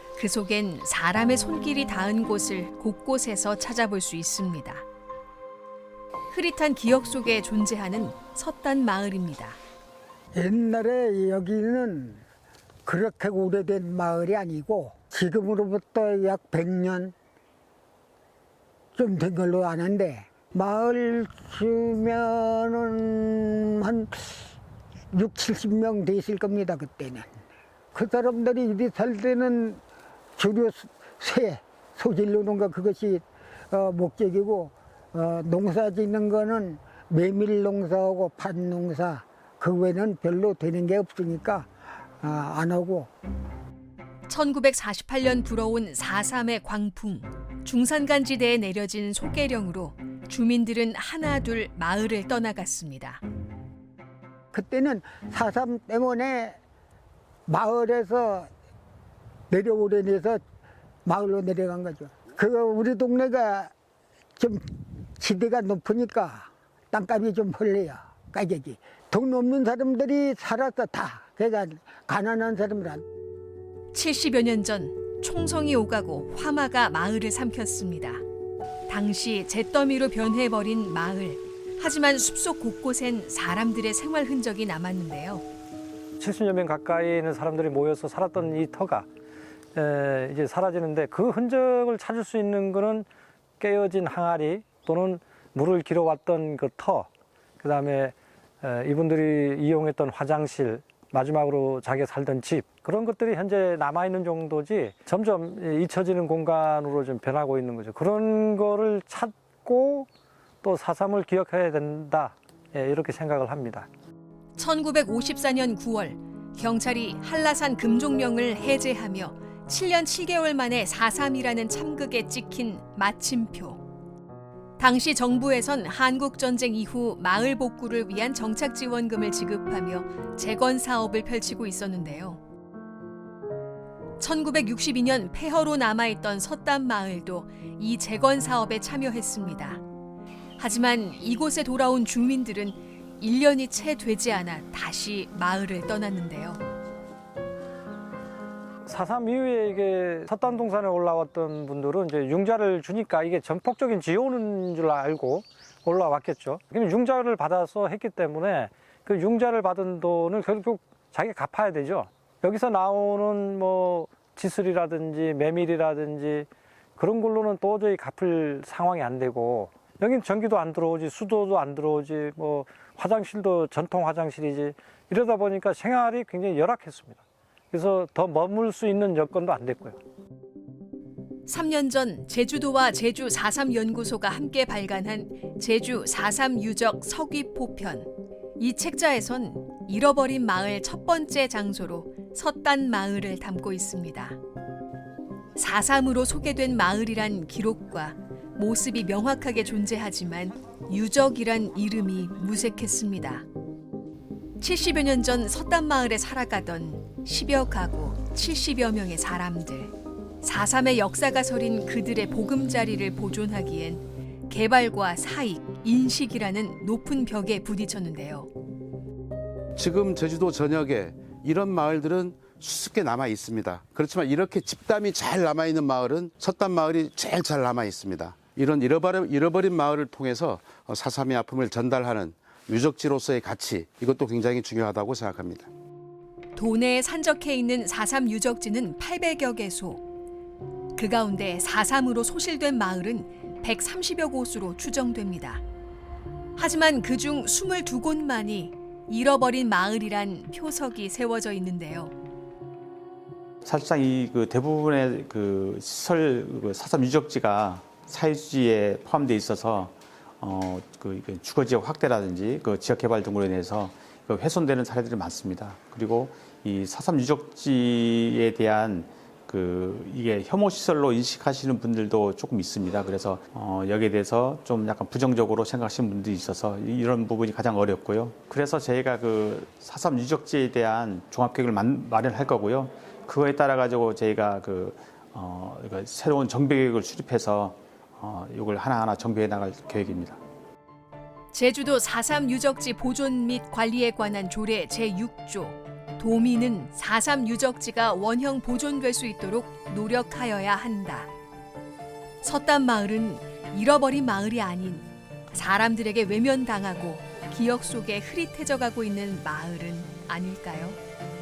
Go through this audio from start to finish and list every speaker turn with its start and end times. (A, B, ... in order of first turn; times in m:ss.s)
0:00.2-0:04.8 A
0:06.3-0:09.6 A
0:10.4-0:12.2 B
0:12.9-0:17.1 B
0:19.0-0:24.3 B
0:25.1-0:27.3 B
0:27.9-0:29.8 B
0:30.4-0:41.7 B
0:42.2-0:43.1 B
0:44.3-0:53.2 A
0:54.5-0:56.6 B
0:57.5-0:58.5 B
0:59.5-1:00.4 B
1:01.0-1:03.7 B
1:04.4-1:04.6 B
1:05.2-1:13.0 B
1:13.9-1:18.2 A
1:18.9-1:25.4 A
1:26.2-1:29.1 C
1:29.8-1:33.1 C
1:33.6-1:37.1 C
1:37.6-1:50.1 C
1:50.6-1:53.9 C
1:54.6-2:03.8 A
2:04.8-2:12.4 A
2:14.2-2:19.8 A
2:20.6-2:26.6 A
2:28.8-2:57.2 C
2:57.7-3:00.0 C
3:01.5-3:14.4 A
3:15.6-3:23.4 A
3:24.6-3:38.5 A
3:39.8-3:55.7 D
3:56.6-4:00.0 A
4:01.0-4:05.6 A
4:06.6-4:12.1 A
4:13.6-4:50.4 E
4:51.5-5:01.3 A
5:02.4-5:11.0 A